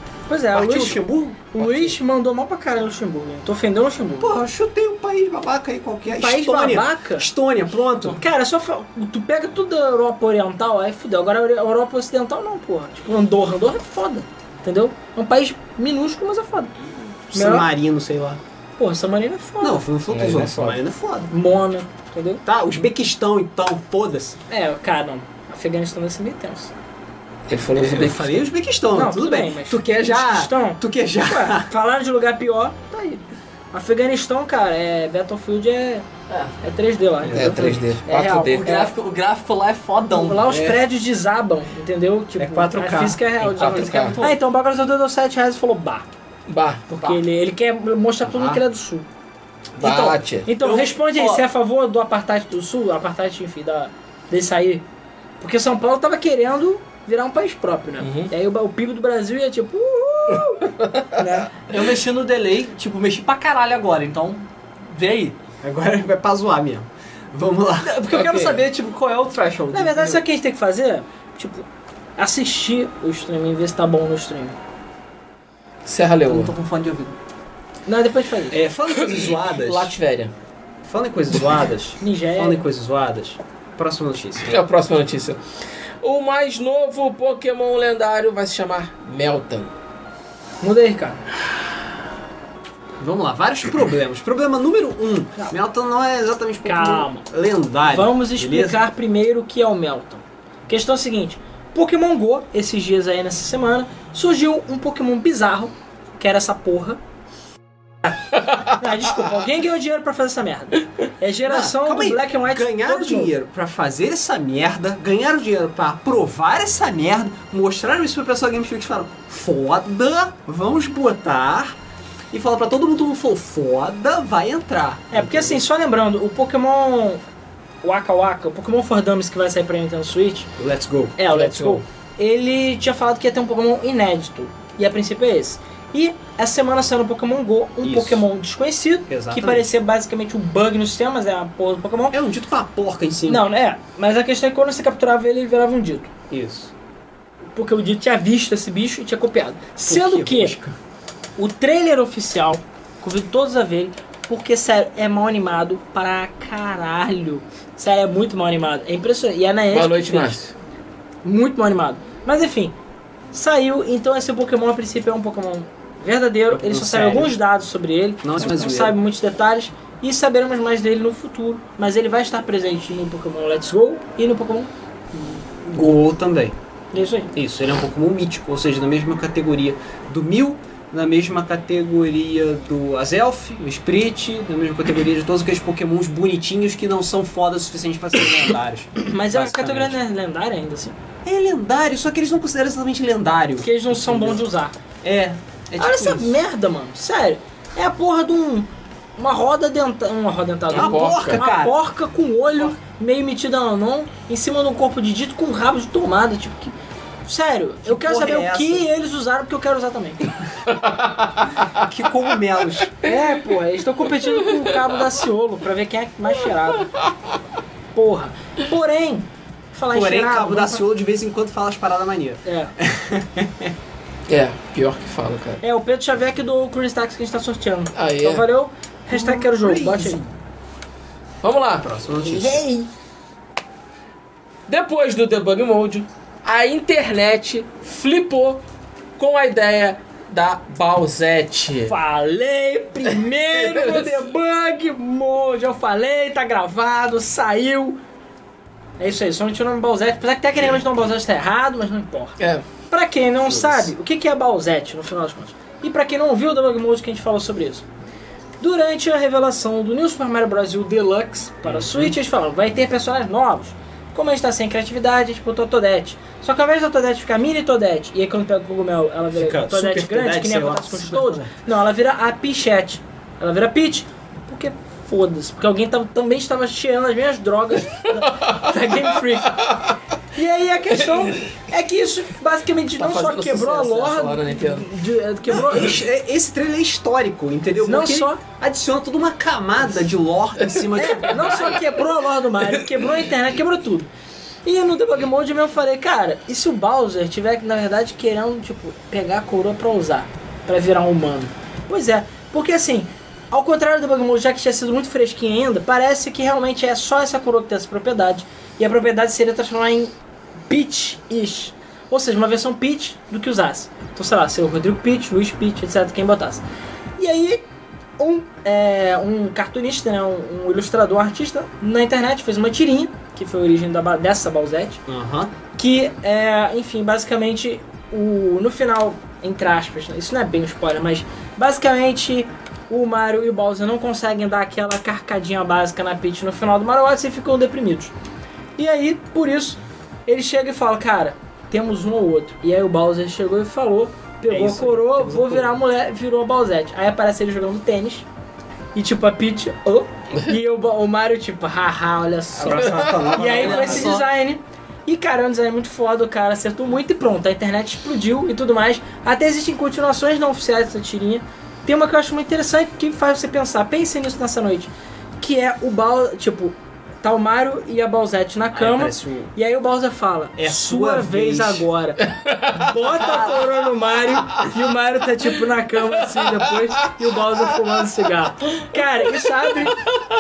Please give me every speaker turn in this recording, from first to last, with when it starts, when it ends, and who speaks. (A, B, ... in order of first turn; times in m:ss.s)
0:00.3-0:04.4 A
0:00.5-0:01.9 B
0:04.2-0:08.2 B
0:06.1-0:07.3 A
0:08.0-0:16.7 A
0:17.3-0:18.4 B
0:17.3-0:17.7 A
0:18.8-0:19.8 A
0:19.6-0:21.3 B
0:20.1-0:20.8 C
0:21.3-0:22.4 A
0:22.4-0:24.4 B
0:24.5-0:26.7 A
0:27.5-0:28.5 C
0:27.8-0:31.7 B
0:28.9-0:36.1 A
0:36.6-0:38.9 A
0:37.2-0:37.8 B
0:37.3-0:38.9 C
0:38.5-0:40.7 D
0:40.1-0:46.1 A
0:42.4-0:43.2 B
0:43.4-0:44.4 D
0:43.5-0:44.2 C
0:46.5-0:46.8 C
0:46.9-0:49.1 A
0:46.9-0:47.2 D
0:48.2-0:48.6 B
0:49.8-0:50.5 C
0:49.8-0:54.8 A
0:50.6-0:51.4 D
0:55.4-1:01.5 A
0:58.0-0:58.3 C
1:00.3-1:01.2 C
1:01.7-1:05.4 D
1:05.6-1:08.5 B
1:07.8-1:10.2 D
1:09.7-1:11.7 A
1:12.2-1:14.6 A
1:15.8-1:16.5 C
1:16.3-1:17.1 D
1:17.9-1:18.6 A
1:18.5-1:19.9 B
1:18.9-1:20.3 C
1:20.9-1:24.6 B
1:22.0-1:22.6 A
1:24.5-1:25.4 C
1:26.0-1:29.7 C
1:30.6-1:31.2 A
1:33.0-1:38.8 B
1:36.6-1:37.2 A
1:37.8-1:47.0 A
1:48.4-1:48.7 C
1:48.7-1:53.3 A
1:51.4-2:01.8 B
2:02.3-2:05.6 B
2:05.1-2:07.2 A
2:07.8-2:10.5 A
2:10.6-2:11.2 B
2:11.2-2:22.2 A
2:11.3-2:11.8 C
2:17.8-2:18.2 B
2:19.1-2:19.7 B
2:22.1-2:23.4 B
2:23.3-2:26.1 A
2:26.3-2:26.7 B
2:27.5-2:30.6 A
2:29.9-2:30.8 B
2:31.4-2:40.4 A
2:39.7-2:40.5 C
2:41.2-2:42.8 A
2:43.3-2:55.4 A
2:46.5-2:47.3 B
2:48.2-2:49.0 B
2:55.6-2:56.6 B
2:56.9-2:57.3 A
2:57.3-3:10.0 B
3:09.0-3:11.0 A
3:11.2-3:14.4 B
3:13.6-3:14.8 A
3:15.0-3:16.4 B
3:15.8-3:30.2 A
3:20.7-3:21.4 C
3:20.7-3:21.8 B
3:27.8-3:28.8 B
3:30.7-3:31.5 C
3:31.7-3:33.0 B
3:33.0-3:36.9 A
3:37.9-3:40.9 A
3:39.9-3:43.7 B
3:42.4-3:42.7 A
3:44.3-3:45.6 C
3:45.6-3:50.2 A
3:48.0-3:48.4 C
3:49.1-3:50.3 B
3:51.4-3:51.9 C
3:51.8-3:52.6 B
3:52.2-3:52.9 A
3:54.7-3:58.6 C
3:59.2-4:01.9 C
4:01.9-4:08.0 A
4:03.6-4:04.2 C
4:09.0-4:12.4 A
4:12.4-4:12.6 C
4:12.9-4:17.8 A
4:13.5-4:13.9 B
4:18.6-4:39.7 A
4:21.6-4:22.1 B
4:29.4-4:31.5 B
4:38.2-4:39.9 C
4:40.4-4:46.0 A
4:43.0-4:44.9 C
4:45.5-4:51.7 B
4:47.8-4:48.4 A
4:51.0-4:54.1 A
4:54.6-5:10.1 A
5:10.7-5:16.6 A
5:17.2-5:17.6 A
5:18.2-5:25.0 A
5:25.1-5:25.5 B
5:25.8-5:38.1 A
5:38.8-5:48.3 A
5:44.5-5:45.7 B
5:49.0-6:20.0 A
5:52.5-5:54.2 B
5:53.4-5:54.2 D
6:08.7-6:09.5 B
6:10.6-6:11.9 B
6:12.4-6:12.9 C
6:13.2-6:13.6 B